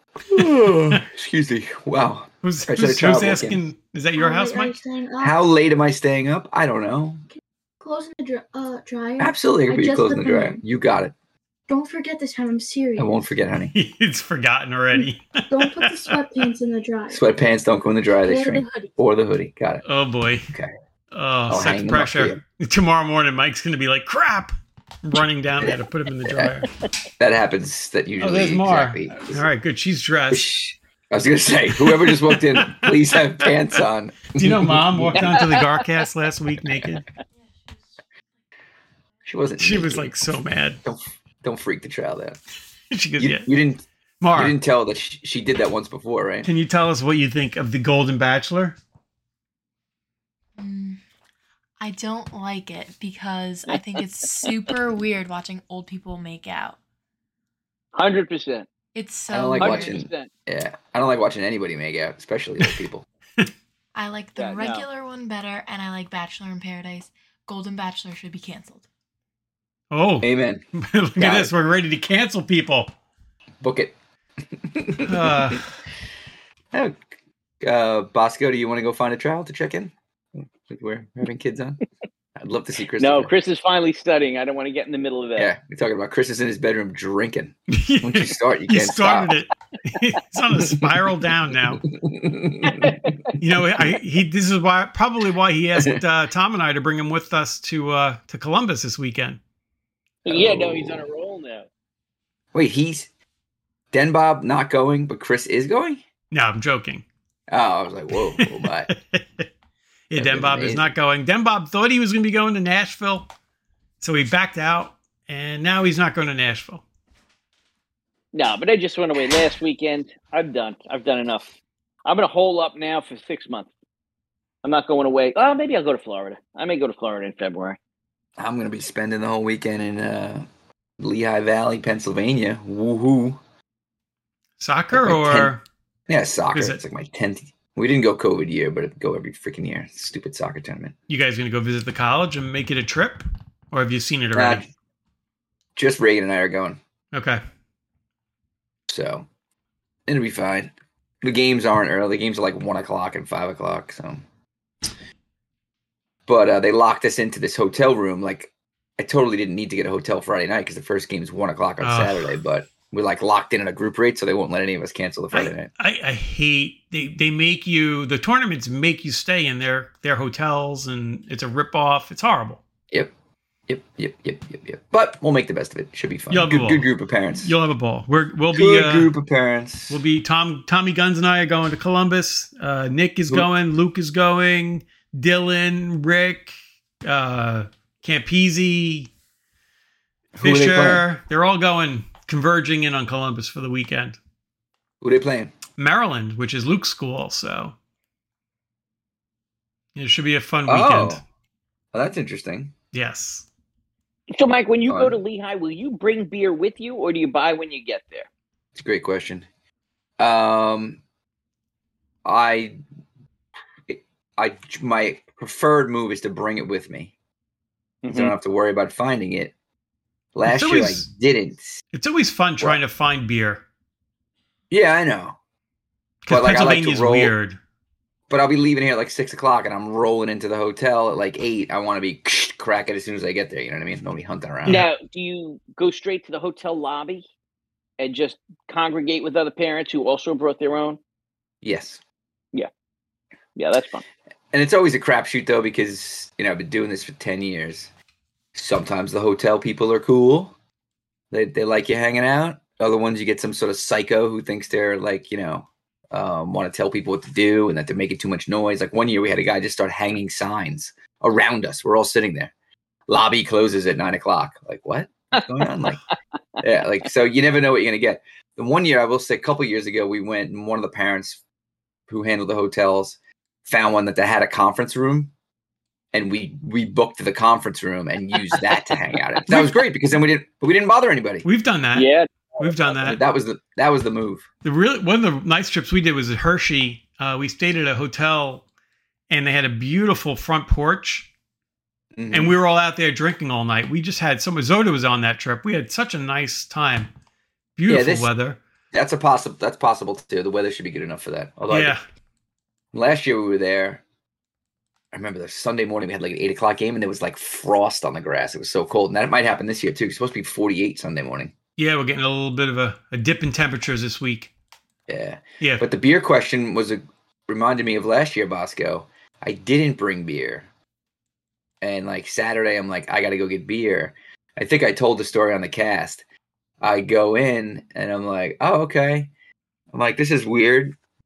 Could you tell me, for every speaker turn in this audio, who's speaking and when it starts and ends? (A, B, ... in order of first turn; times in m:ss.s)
0:00.2-0:03.6 A
0:02.4-0:04.8 B
0:04.2-0:05.4 C
0:05.2-0:07.2 A
0:07.8-0:10.6 C
0:09.2-0:11.1 A
0:11.7-0:13.1 C
0:13.0-0:13.7 A
0:13.7-0:16.4 B
0:14.9-0:17.2 C
0:17.1-0:19.8 A
0:18.2-0:18.9 C
0:19.8-0:20.5 B
0:21.1-0:24.5 B
0:21.5-0:22.4 A
0:25.0-0:26.7 B
0:25.6-0:26.5 A
0:27.2-0:29.5 A
0:28.2-0:30.5 B
0:30.3-0:35.5 A
0:31.8-0:33.6 B
0:34.3-0:37.0 B
0:35.2-0:35.9 D
0:39.2-0:40.2 A
0:39.6-0:40.8 B
0:40.8-0:42.4 A
0:42.9-0:43.5 B
0:43.2-0:46.5 A
0:44.2-0:44.6 B
0:46.4-0:48.8 B
0:50.6-0:51.0 E
0:51.8-0:56.8 E
0:57.9-0:58.7 D
0:58.9-1:00.0 E
0:59.3-1:03.0 A
0:59.6-1:00.3 D
1:03.9-1:08.8 E
1:04.4-1:04.8 D
1:09.9-1:12.9 B
1:10.2-1:10.6 A
1:11.2-1:11.5 A
1:13.6-1:13.9 A
1:14.5-1:15.6 A
1:15.0-1:15.6 B
1:16.7-1:17.0 A
1:17.6-1:21.8 A
1:22.4-1:23.3 A
1:23.0-1:25.5 D
1:25.4-1:29.4 A
1:27.7-1:31.8 B
1:30.5-1:30.9 A
1:31.9-1:33.0 A
1:32.6-1:33.3 D
1:33.4-1:39.4 B
1:35.8-1:36.0 A
1:40.2-1:41.0 A
1:40.2-1:41.7 D
1:42.5-1:43.1 A
1:43.9-1:46.0 A
1:46.3-1:47.0 B
1:47.5-1:48.9 A
1:48.3-1:49.4 B
1:50.1-1:53.3 B
1:50.2-1:50.9 A
1:54.0-1:56.8 B
1:58.3-2:01.5 D
2:02.0-2:03.7 D
2:04.6-2:07.8 D
2:08.4-2:10.4 A
2:11.0-2:13.4 A
2:14.6-2:15.6 B
2:14.9-2:15.5 A
2:16.1-2:20.9 A
2:16.5-2:16.8 B
2:21.1-2:24.6 B
2:24.3-2:24.6 A
2:25.8-2:26.8 A
2:27.1-2:27.4 B
2:28.9-2:29.3 A
2:30.1-2:34.2 A
2:36.3-2:45.7 A
2:41.8-2:42.3 B
2:45.3-2:52.6 B
2:53.7-2:57.5 A
2:56.3-2:56.9 B
2:57.4-2:59.1 B
2:58.5-3:00.0 A
2:59.9-3:09.1 B
3:10.4-3:11.0 A
3:10.4-3:14.2 B
3:15.0-3:15.5 A
3:15.8-3:17.7 B
3:19.9-3:21.2 B
3:20.7-3:21.2 A
3:21.9-3:22.7 A
3:22.9-3:23.4 B
3:24.3-3:28.3 D
3:24.9-3:25.2 A
3:28.8-3:29.4 A
3:30.2-3:31.0 A
3:32.2-3:32.8 A
3:33.9-3:37.1 A
3:38.0-3:38.3 D
3:38.1-3:39.5 A
3:40.3-3:41.8 A
3:40.4-3:41.1 B
3:41.9-3:43.6 B
3:44.7-3:45.4 A
3:46.2-3:47.6 B
3:46.3-3:47.3 A
3:48.3-3:54.8 A
3:54.6-3:57.2 D
3:58.0-4:01.0 D
4:01.6-4:02.0 A
4:03.6-4:04.0 D
4:04.5-4:07.9 A
4:08.5-4:10.5 A
4:11.3-4:22.5 A
4:23.1-4:26.0 A
4:25.3-4:25.9 D
4:26.6-4:31.4 A
4:32.1-4:35.3 A
4:36.1-4:41.5 A
4:41.4-4:43.2 B
4:41.9-4:42.8 D
4:43.0-4:44.4 A
4:44.6-4:48.6 B
4:49.3-4:51.3 B
4:52.1-4:52.6 A
4:52.3-4:57.1 B
4:57.8-4:58.6 B
4:57.9-4:58.3 A
4:58.9-5:01.9 A
5:01.7-5:02.0 B
5:02.9-5:04.0 A
5:05.1-5:11.5 A
5:11.8-5:14.5 B
5:15.1-5:20.6 A
5:15.6-5:15.9 B
5:21.8-5:26.2 A
5:26.8-5:29.3 A
5:29.9-5:31.0 A